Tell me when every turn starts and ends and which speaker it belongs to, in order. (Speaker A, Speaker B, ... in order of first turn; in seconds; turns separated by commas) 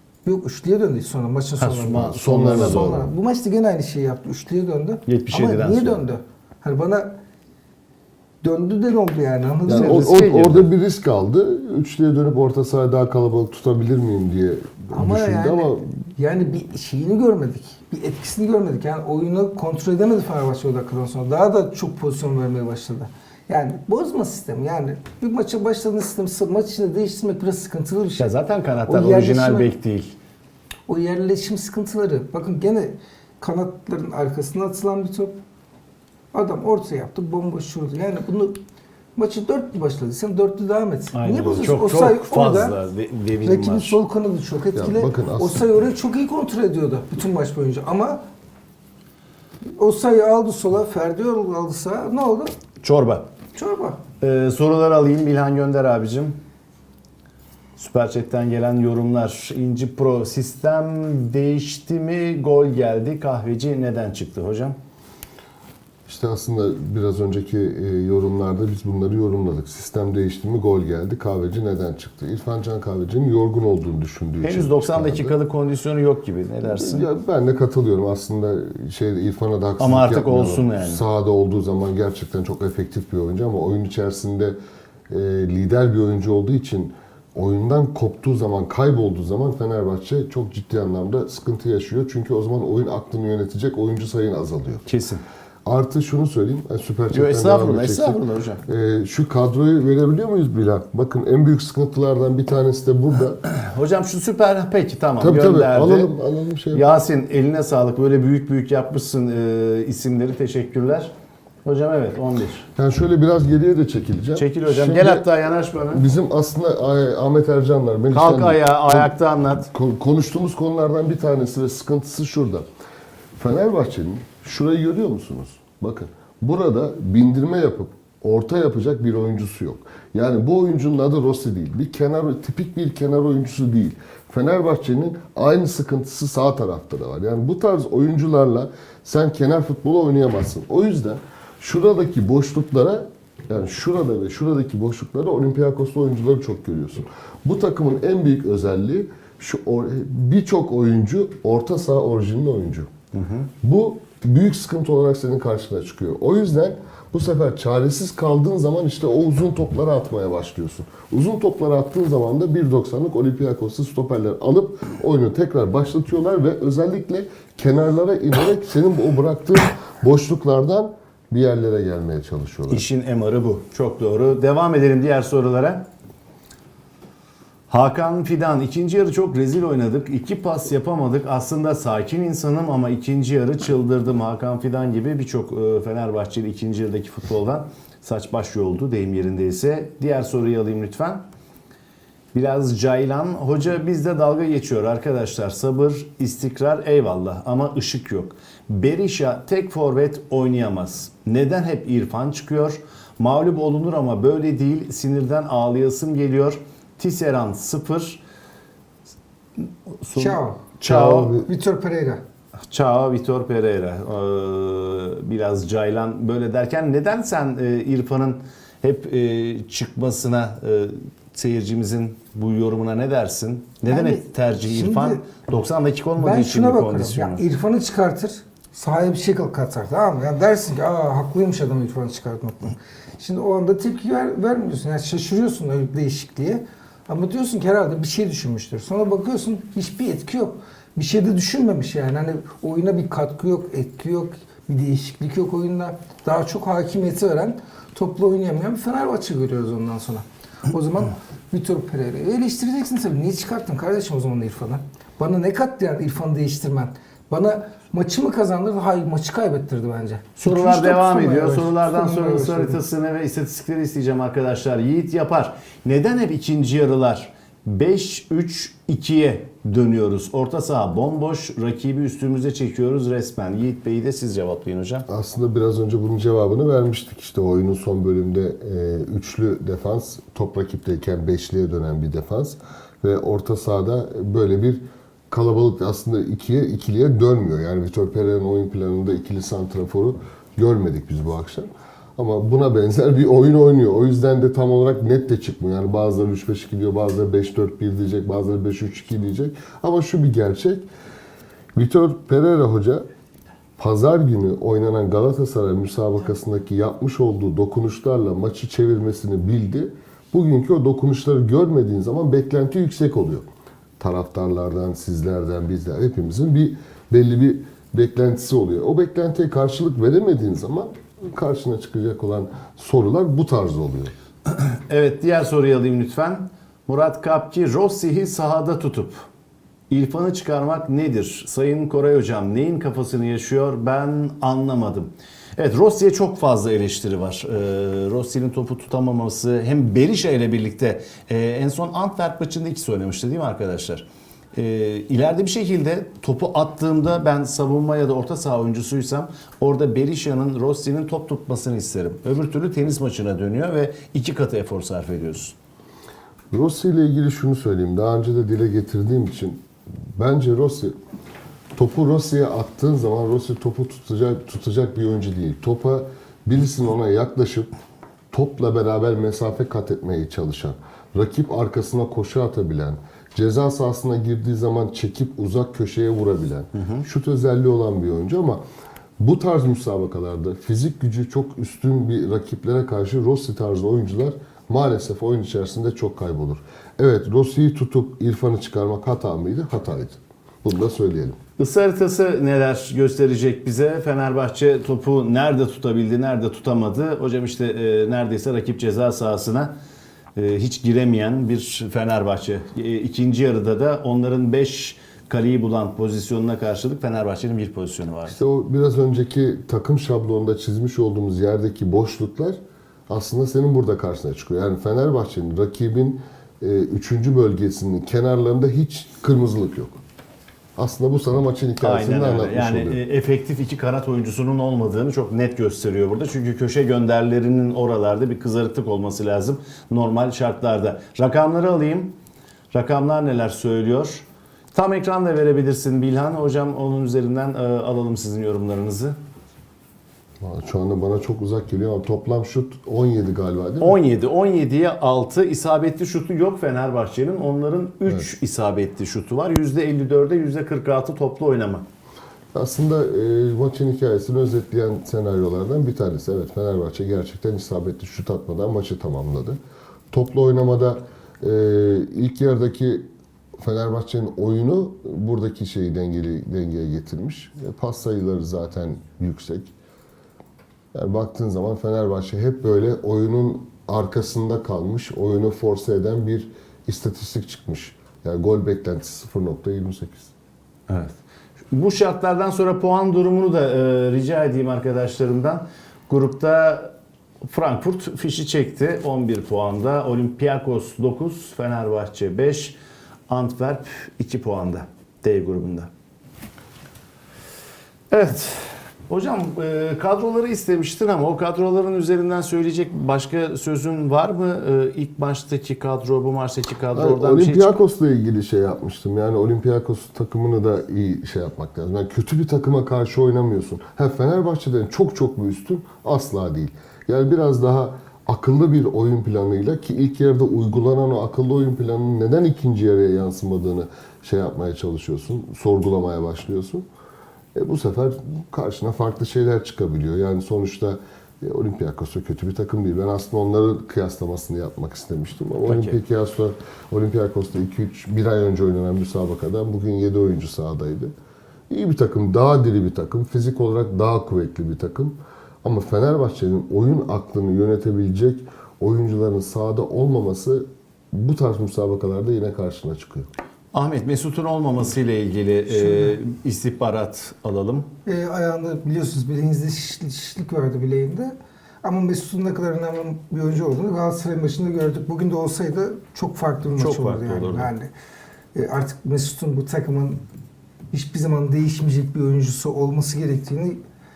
Speaker A: 0.2-7.2, Speaker B: 1.6-3.1, Speaker C: 1.9-3.1, Speaker B: 5.1-6.0, Speaker A: 8.4-10.0, Speaker C: 9.7-15.9, Speaker B: 9.7-10.7, Speaker A: 14.9-28.3, Speaker B: 28.2-30.1, Speaker A: 28.9-29.7, Speaker A: 30.9-35.3, Speaker A: 36.3-38.6, Speaker A: 39.1-42.7, Speaker B: 41.1-44.0, Speaker A: 43.4-48.2, Speaker C: 44.7-45.6, Speaker A: 49.7-52.5, Speaker B: 52.8-53.3, Speaker A: 53.5-54.0, Speaker B: 54.2-56.4, Speaker B: 57.8-64.8, Speaker C: 66.1-75.4, Speaker B: 74.4-77.1, Speaker C: 76.6-84.6, Speaker B: 79.8-81.0, Speaker C: 85.1-94.9, Speaker B: 94.8-95.2, Speaker C: 95.7-103.4, Speaker B: 97.1-98.6, Speaker B: 103.4-106.1, Speaker C: 105.2-106.8, Speaker B: 106.7-111.1, Speaker B: 111.6-112.7, Speaker C: 112.8-115.3, Speaker B: 114.3-116.0, Speaker C: 115.9-122.7, Speaker B: 118.1-119.7, Speaker C: 123.3-152.9, Speaker B: 153.1-153.5, Speaker C: 153.6-172.8, Speaker B: 172.7-175.9, Speaker B: 177.7-191.2, Speaker B: 192.3-208.2, Speaker B: 209.6-211.4, Speaker A: 210.1-212.2, Speaker C: 210.9-211.4, Speaker B: 212.7-227.4, Speaker A: 223.8-225.2, Speaker A: 226.2-262.8, Speaker B: 260.4-275.1, Speaker C: 275.1-300.9, Speaker C: 301.7-303.0, Speaker C: 303.8-313.4, Speaker C: 314.0-324.1, Speaker B: 324.5-329.2, Speaker B: 329.9-355.5, Speaker C: 356.5-359.6, Speaker C: 360.1-360.9, Speaker C: 361.7-367.7, Speaker C: 368.3-378.6, Speaker C: 379.2-391.4, Speaker B: 391.6-399.7, Speaker B: 400.4-408.4, Speaker C: 408.3-420.0, Speaker C: 420.8-423.0, Speaker B: 421.8-432.1, Speaker B: 432.7-439.1, Speaker C: 440.4-444.0, Speaker B: 443.8-451.9, Speaker C: 452.5-459.6, Speaker C: 460.1-463.0, Speaker C: 463.6-469.7, Speaker C: 470.9-480.3, Speaker B: 480.9-481.1, Speaker B: 481.7-492.8, Speaker B: 493.3-495.9, Speaker B: 498.1-507.7, Speaker C: 506.9-526.9, Speaker C: 527.5-541.1, Speaker B: 535.6-536.0, Speaker C: 541.7-553.3, Speaker B: 553.7-557.9, Speaker A: 555.7-556.1, Speaker A: 558.0-567.9, Speaker B: 566.8-567.7, Speaker A: 568.5-570.2, Speaker A: 570.9-573.8